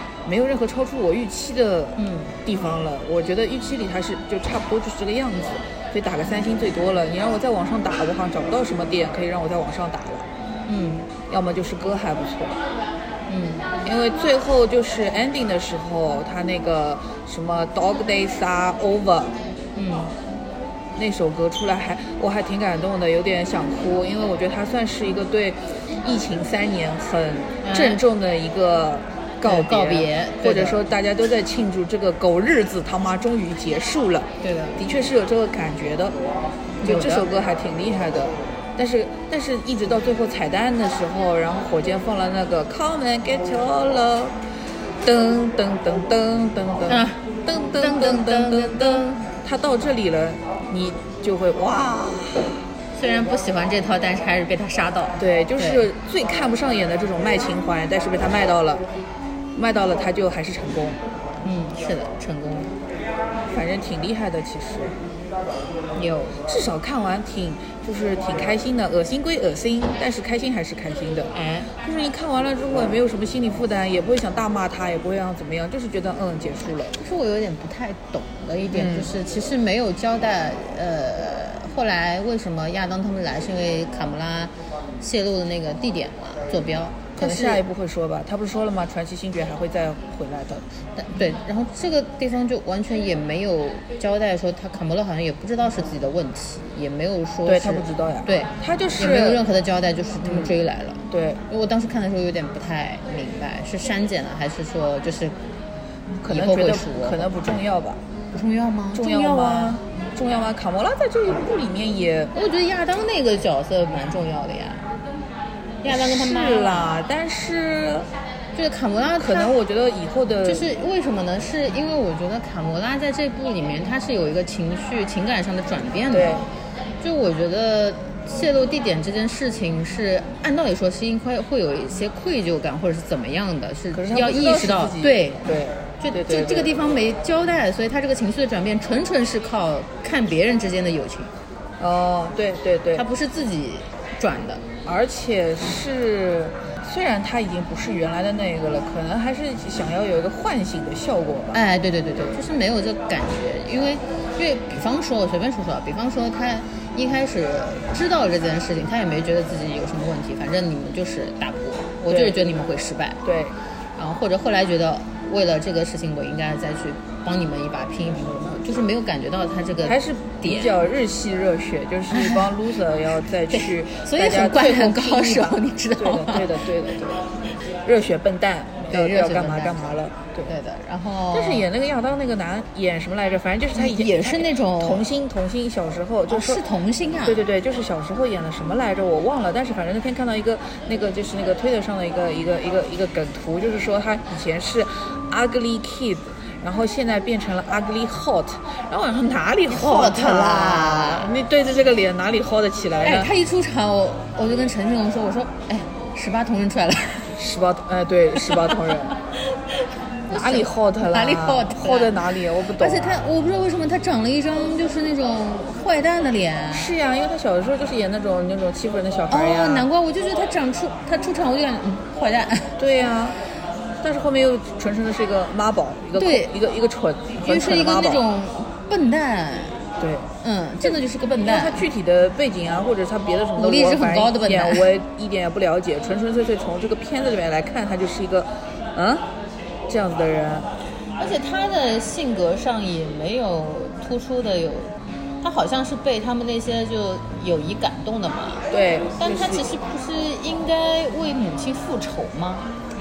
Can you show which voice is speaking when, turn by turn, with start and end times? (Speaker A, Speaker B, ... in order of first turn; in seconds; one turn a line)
Speaker A: 0.2-10.2
Speaker B: 2.0-2.3
Speaker B: 10.7-11.1
Speaker A: 11.3-12.5
Speaker B: 13.3-13.7
Speaker A: 13.8-19.4
Speaker B: 19.8-20.1
Speaker A: 20.9-36.1
Speaker B: 27.6-28.0
Speaker B: 29.4-30.8
Speaker B: 34.4-34.8
Speaker B: 36.8-37.3
Speaker A: 36.8-44.3
Speaker A: 45.0-52.6
Speaker B: 46.9-49.3
Speaker B: 52.9-55.9
Speaker A: 55.2-58.8
Speaker A: 59.5-61.0
Speaker B: 61.4-62.7
Speaker A: 63.5-64.9
Speaker B: 65.9-66.4
Speaker A: 66.4-77.0
Speaker B: 71.3-71.7
Speaker B: 76.9-87.6
Speaker A: 78.7-79.1
Speaker A: 87.2-90.6
Speaker B: 91.0-105.3
Speaker A: 97.5-99.4
Speaker A: 100.2-100.5
Speaker A: 101.1-101.4
Speaker A: 106.2-108.0
Speaker B: 106.2-107.3
Speaker B: 108.3-109.8
Speaker A: 108.9-112.3
Speaker B: 112.3-114.8
Speaker B: 115.8-116.9
Speaker A: 115.8-118.1
Speaker B: 118.5-119.5
Speaker A: 119.2-120.7
Speaker B: 120.4-126.5
Speaker A: 126.1-126.5
Speaker B: 127.0-135.5
Speaker A: 133.9-136.7
Speaker B: 136.0-141.3
Speaker A: 141.8-143.1
Speaker B: 142.9-144.6
Speaker A: 144.8-151.6
Speaker B: 151.5-163.2
Speaker A: 162.0-162.4
Speaker A: 163.2-163.6
Speaker B: 163.9-170.8
Speaker A: 169.8-177.3
Speaker B: 172.1-172.5
Speaker B: 173.5-176.6
Speaker A: 177.8-180.6
Speaker B: 178.9-179.9
Speaker B: 180.4-181.7
Speaker A: 181.3-186.6
Speaker B: 183.7-185.0
Speaker B: 186.3-187.4
Speaker A: 187.2-203.3
Speaker B: 199.7-201.3
Speaker B: 203.0-207.3
Speaker A: 207.3-209.1
Speaker B: 209.5-216.9
Speaker A: 210.3-213.2
Speaker A: 216.7-219.9
Speaker B: 219.3-222.8
Speaker A: 222.8-223.4
Speaker A: 224.0-228.2
Speaker B: 226.1-226.5
Speaker B: 227.4-229.8
Speaker A: 230.0-230.3
Speaker B: 230.4-231.8
Speaker A: 230.9-239.2
Speaker B: 233.6-234.9
Speaker A: 239.9-240.7
Speaker B: 241.2-248.7
Speaker A: 248.7-249.7
Speaker B: 249.2-252.7